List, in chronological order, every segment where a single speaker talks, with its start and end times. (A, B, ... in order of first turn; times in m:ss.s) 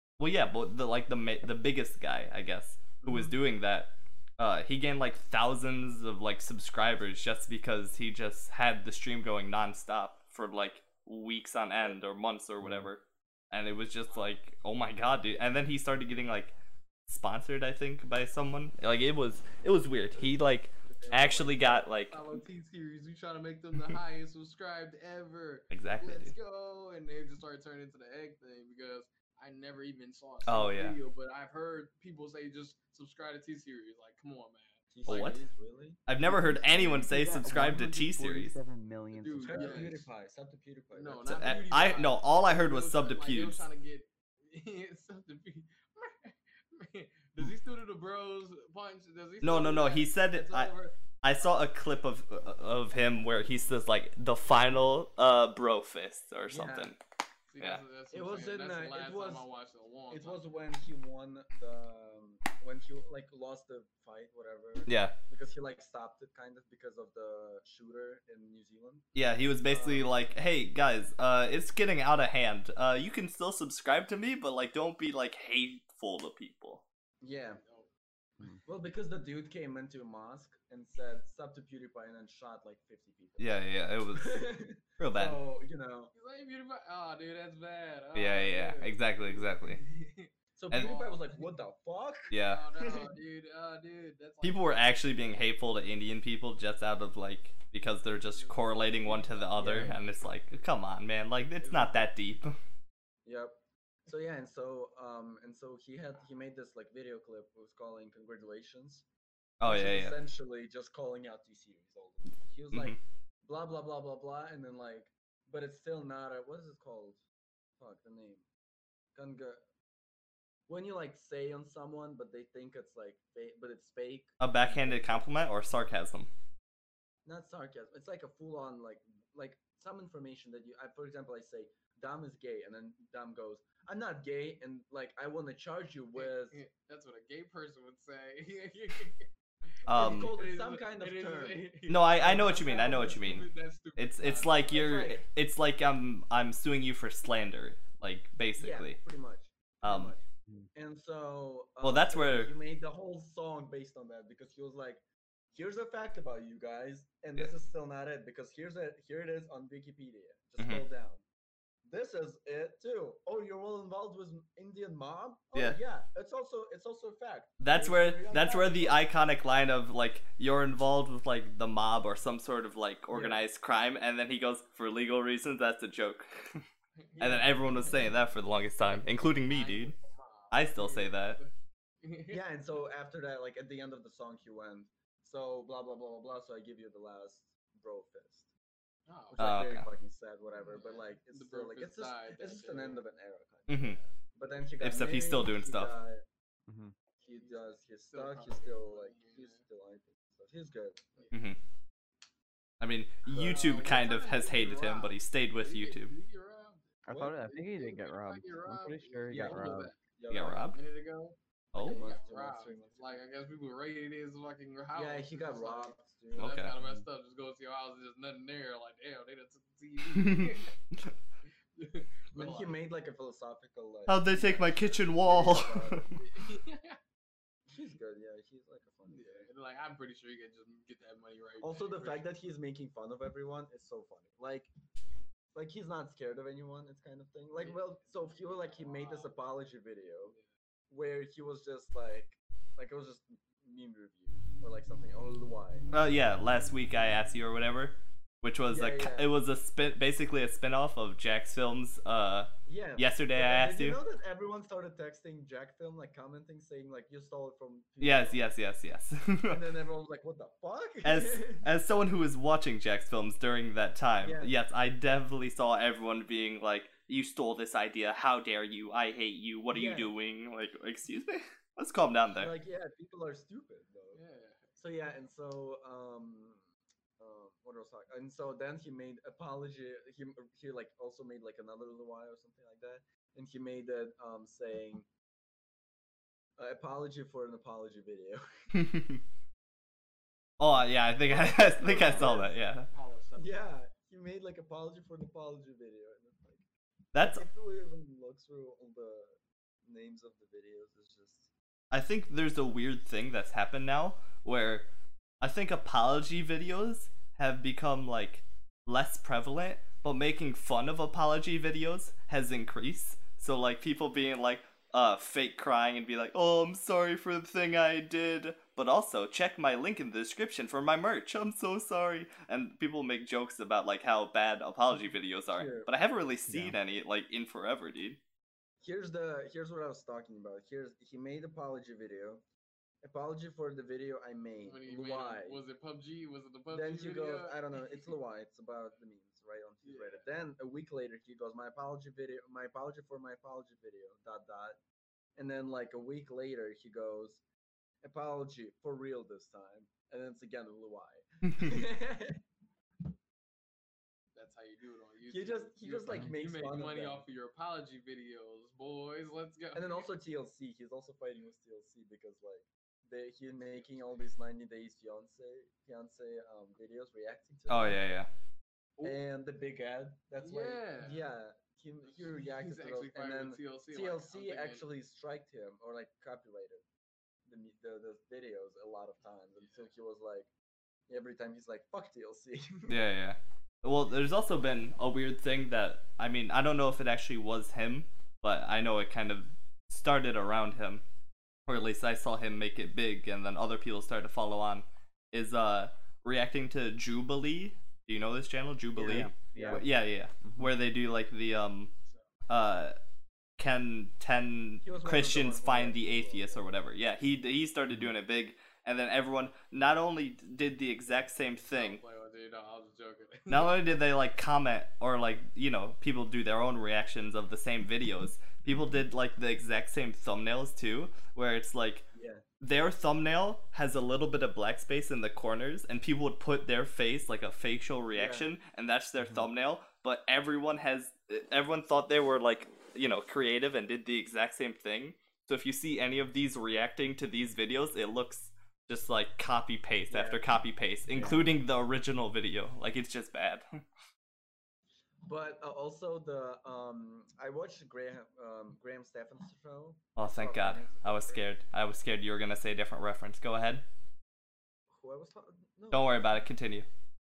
0:00.2-0:16.5 A
0:12.6-0:12.9 B
0:14.1-0:14.4 C
0:17.1-0:22.2 A
0:20.8-0:34.8 C
0:25.7-0:26.3 A
0:30.5-0:31.0 A
0:34.9-0:36.0 D
0:35.1-0:35.4 A
0:36.1-0:38.6 A
0:36.3-0:40.0 B
0:39.1-0:40.1 C
0:39.4-0:41.6 D
0:41.0-0:51.0 C
0:41.3-0:43.7 A
0:49.4-0:57.0 A
0:56.5-0:56.9 D
0:57.5-1:00.6 C
0:58.1-0:59.5 D
1:00.1-1:10.1 D
1:04.9-1:05.1 A
1:09.2-1:16.8 A
1:17.2-1:17.6 D
1:17.4-1:17.9 C
1:18.6-1:23.6 D
1:23.4-1:24.5 A
1:24.2-1:26.1 D
1:25.0-1:25.4 A
1:26.1-1:31.5 C
1:28.2-1:29.8 A
1:30.6-1:32.3 D
1:32.3-1:32.6 A
1:32.4-1:35.0 C
1:34.4-1:42.5 A
1:38.3-1:40.3 C
1:39.6-1:40.0 D
1:41.6-1:42.1 C
1:43.2-1:49.1 D
1:49.6-1:50.2 A
1:49.6-1:57.2 D
1:52.7-1:53.0 A
1:57.8-1:58.5 D
1:59.1-1:59.7 D
2:00.7-2:05.3 D
2:04.4-2:06.3 A
2:07.2-2:16.6 D
2:16.2-2:19.3 C
2:19.9-2:24.8 C
2:19.9-2:20.3 A
2:19.9-2:23.2 D
2:21.9-2:29.0 A
2:24.7-2:25.2 D
2:28.6-2:41.2 D
2:29.8-2:30.1 A
2:31.8-2:32.5 A
2:40.6-2:40.8 A
2:41.9-2:49.1 D
2:47.6-2:56.6 A
2:53.1-2:53.4 D
2:57.0-2:58.1 C
2:57.2-3:00.0 A
2:58.8-3:01.5 C
3:00.5-3:01.4 A
3:02.0-3:02.4 C
3:02.3-3:08.5 D
3:09.1-3:09.4 C
3:09.3-3:16.2 D
3:09.4-3:09.9 A
3:10.6-3:13.1 C
3:13.7-3:14.0 A
3:14.8-3:16.0 A
3:16.7-3:17.0 B
3:17.2-3:21.1 D
3:17.3-3:19.6 C
3:21.2-3:21.4 C
3:21.3-3:21.6 A
3:22.8-3:26.1 A
3:23.3-3:23.7 D
3:23.3-3:26.9 C
3:27.1-3:29.9 B
3:27.1-3:27.4 D
3:27.4-3:30.0 C
3:29.3-3:30.8 D
3:30.3-3:30.8 A
3:30.7-3:40.7 C
3:31.7-3:32.1 A
3:31.8-3:33.2 D
3:34.9-3:36.6 D
3:36.4-3:36.7 A
3:36.8-3:37.1 B
3:40.2-3:41.0 A
3:41.8-3:42.8 C
3:42.3-3:46.2 D
3:44.1-3:46.0 A
3:45.6-3:47.0 C
3:47.7-3:49.5 D
3:49.1-3:52.3 C
3:51.6-3:54.7 D
3:55.5-4:00.4 D
3:57.6-3:59.4 C
4:00.9-4:05.9 D
4:05.9-4:14.0 A
4:08.7-4:09.3 D
4:12.7-4:18.5 D
4:18.0-4:19.6 A
4:19.5-4:21.7 D
4:21.0-4:32.5 A
4:24.2-4:24.5 D
4:29.7-4:30.1 D
4:32.3-4:34.2 D
4:34.1-4:34.8 C
4:34.8-4:45.1 D
4:46.6-4:48.4 D
4:48.7-4:49.2 A
4:50.6-4:52.9 A
4:51.3-4:52.5 D
4:51.4-4:53.7 C
4:53.4-5:01.5 D
4:57.1-4:57.4 A
5:01.9-5:04.9 A
5:05.4-5:28.2 A
5:25.5-5:25.9 D
5:26.5-5:26.8 B
5:28.8-5:32.4 D
5:33.0-5:35.6 D
5:34.6-5:38.2 C
5:36.7-5:44.8 D
5:39.8-5:40.3 C
5:45.4-5:47.4 D
5:48.0-5:52.4 D
5:54.4-6:00.1 C
5:55.3-5:57.3 D
5:59.7-6:08.0 D
6:03.6-6:04.2 C
6:07.7-6:08.3 A
6:09.0-6:16.9 D
6:10.4-6:11.3 C
6:12.0-6:14.9 C
6:17.5-6:20.5 D
6:19.6-6:19.9 C
6:21.1-6:23.0 D
6:22.9-6:31.0 A
6:31.7-6:41.9 A
6:39.0-6:39.8 D
6:39.0-6:39.9 B
6:40.4-6:40.7 B
6:42.0-6:42.3 C
6:42.5-6:43.0 A
6:43.6-6:52.0 A
6:44.8-6:46.7 D
6:51.7-6:53.8 C
6:53.5-7:02.1 A
7:02.1-7:02.4 D
7:02.6-7:23.6 A
7:08.1-7:08.5 D
7:09.2-7:09.5 B
7:20.1-7:20.4 D
7:21.1-7:21.5 B
7:25.2-7:31.4 D
7:30.2-7:33.8 A
7:34.9-7:36.2 D
7:35.9-7:36.9 A